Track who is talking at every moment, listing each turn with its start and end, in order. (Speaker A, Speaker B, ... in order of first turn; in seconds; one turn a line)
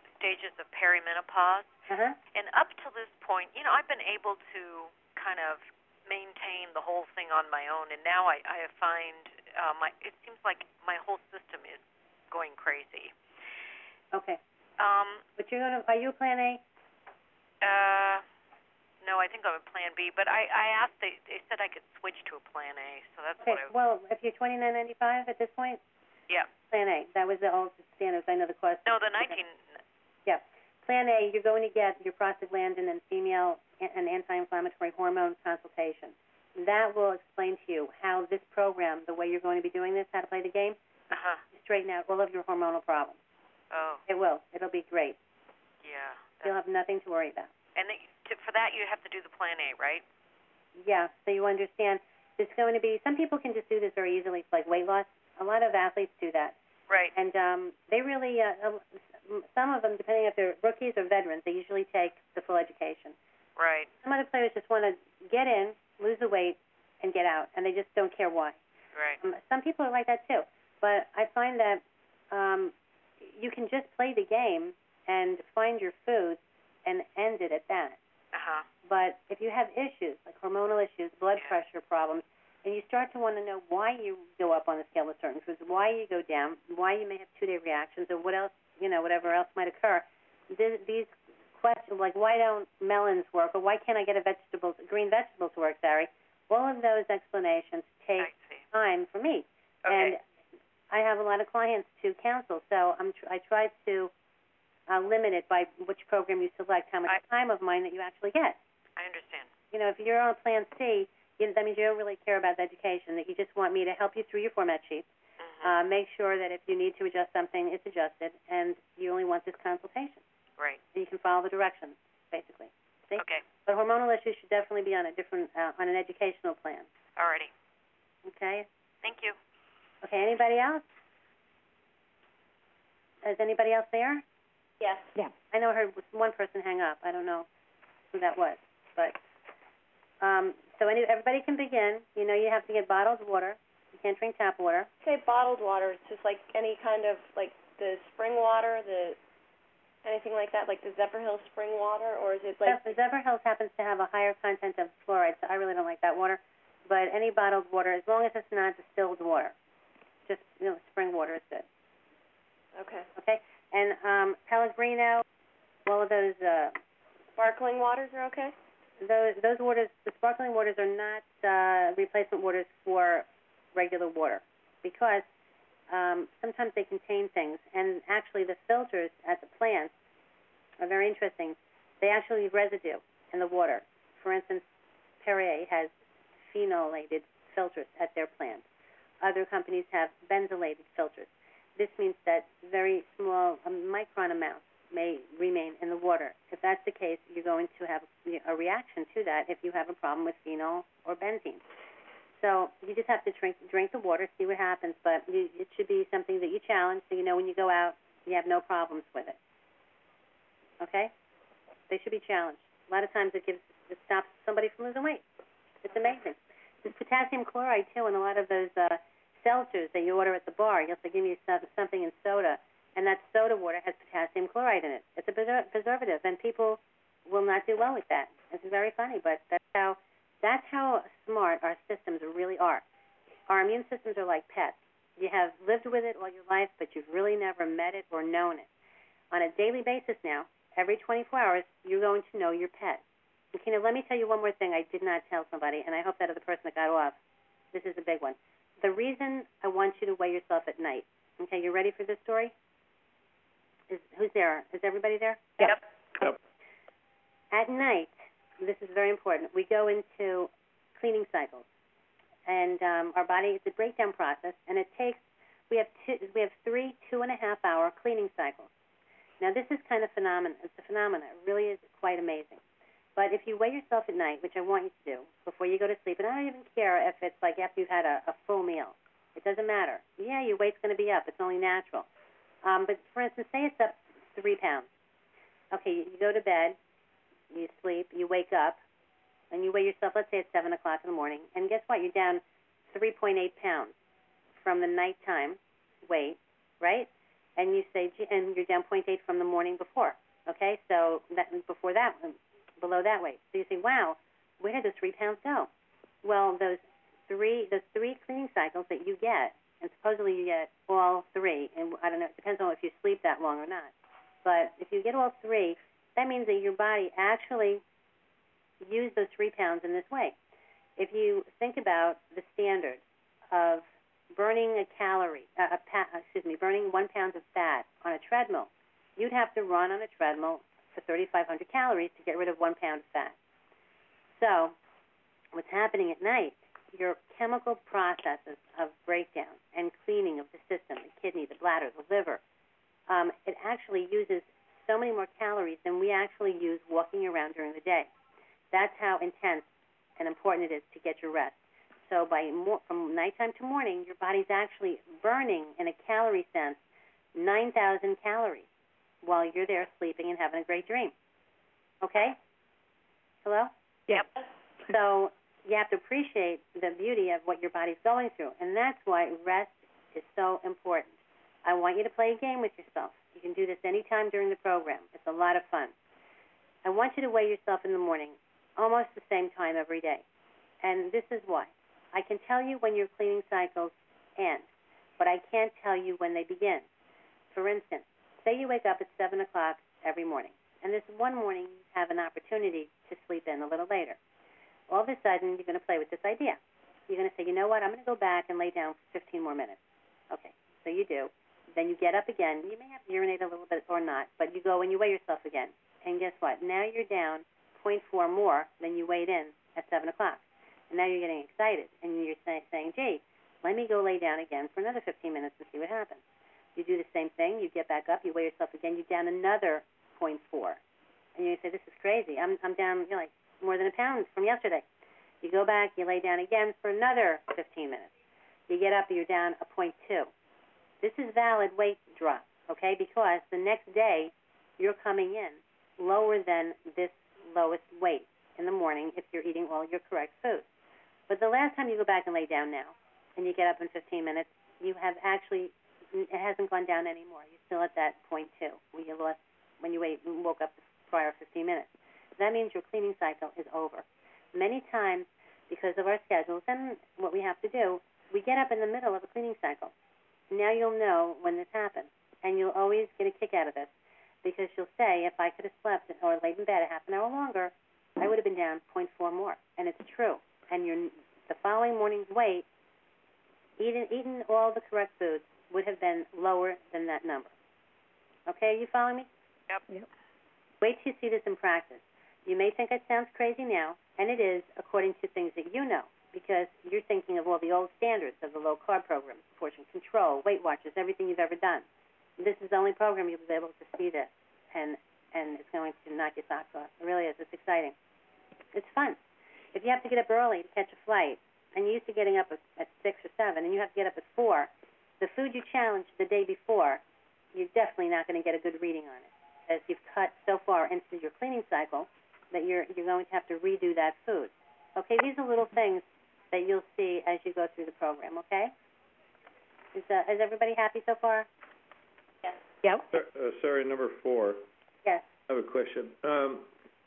Speaker A: 0.2-1.7
Speaker B: 1.9-2.2
Speaker A: 2.3-13.1
Speaker B: 14.1-14.4
Speaker A: 14.8-15.2
Speaker B: 15.4-16.6
Speaker A: 17.6-18.2
Speaker A: 19.0-23.7
Speaker B: 23.4-25.8
Speaker B: 26.7-29.4
Speaker A: 28.9-29.6
Speaker B: 30.3-40.8
Speaker A: 41.1-41.4
Speaker B: 41.5-43.2
Speaker A: 43.7-44.0
Speaker B: 44.1-45.2
Speaker A: 45.8-46.5
Speaker B: 46.4-47.5
Speaker A: 47.8-50.0
Speaker B: 50.8-56.5
Speaker A: 56.9-57.1
Speaker B: 57.1-63.1
Speaker A: 63.6-63.9
Speaker B: 64.0-68.6
Speaker A: 69.0-69.2
Speaker B: 69.2-72.7
Speaker B: 73.2-78.0
Speaker A: 78.3-78.7
Speaker B: 78.9-100.2
Speaker A: 98.2-98.6
Speaker A: 99.8-100.2
Speaker B: 100.9-104.1
Speaker B: 104.9-108.6
Speaker A: 109.0-109.5
Speaker B: 109.7-115.1
Speaker A: 115.5-115.7
Speaker B: 115.6-120.2
Speaker B: 120.9-126.9
Speaker A: 123.2-123.4
Speaker A: 127.2-127.5
Speaker B: 128.3-128.7
Speaker A: 129.0-129.4
Speaker B: 130.0-130.8
Speaker B: 133.2-134.2
Speaker C: 134.8-135.1
Speaker B: 135.5-137.5
Speaker B: 138.1-139.2
Speaker B: 140.2-144.9
Speaker C: 145.0-149.2
Speaker C: 150.0-152.9
Speaker B: 152.6-159.6
Speaker B: 160.3-161.7
Speaker C: 162.8-163.1
Speaker B: 163.2-165.2
Speaker B: 165.9-166.8
Speaker C: 167.4-168.5
Speaker B: 169.0-175.2
Speaker B: 175.9-179.9
Speaker B: 180.8-184.6
Speaker B: 185.2-185.9
Speaker B: 186.5-188.6
Speaker B: 189.2-201.6
Speaker B: 202.4-209.4
Speaker B: 210.8-211.1
Speaker B: 211.9-215.2
Speaker B: 215.8-232.8
Speaker B: 233.5-238.7
Speaker B: 239.3-243.0
Speaker B: 243.5-247.2
Speaker B: 247.7-252.5
Speaker B: 253.9-255.7
Speaker B: 257.5-261.6
Speaker B: 262.5-268.7
Speaker B: 269.4-272.6
Speaker B: 273.2-282.1
Speaker B: 282.6-284.9
Speaker B: 285.7-286.8
Speaker B: 287.5-288.8
Speaker B: 289.5-293.9
Speaker B: 294.6-305.7
Speaker B: 306.2-313.9
Speaker B: 314.4-317.8
Speaker B: 318.8-320.4
Speaker B: 321.0-333.4
Speaker B: 334.4-334.8
Speaker B: 335.5-342.4
Speaker B: 343.1-348.1
Speaker B: 348.7-349.7
Speaker B: 350.2-351.6
Speaker B: 352.1-356.8
Speaker B: 357.4-358.7
Speaker B: 359.2-361.1
Speaker B: 362.0-362.4
Speaker B: 363.4-363.7
Speaker B: 364.9-371.1
Speaker B: 371.6-375.9
Speaker B: 376.9-380.2
Speaker B: 380.8-384.6
Speaker B: 385.2-386.9
Speaker B: 387.5-394.2
Speaker B: 394.9-399.8
Speaker B: 400.3-416.2
Speaker B: 416.8-420.8
Speaker B: 421.4-424.9
Speaker B: 425.4-428.1
Speaker B: 428.7-430.3
Speaker B: 431.0-440.6
Speaker B: 441.3-459.9
Speaker B: 460.5-463.9
Speaker B: 464.4-472.6
Speaker B: 473.8-477.5
Speaker B: 478.5-479.3
Speaker B: 480.8-491.8
Speaker B: 492.4-497.9
Speaker B: 498.7-499.2
Speaker B: 499.7-504.7
Speaker B: 505.2-507.0
Speaker B: 507.5-518.7
Speaker B: 519.9-521.5
Speaker D: 523.1-524.7
Speaker D: 525.5-526.7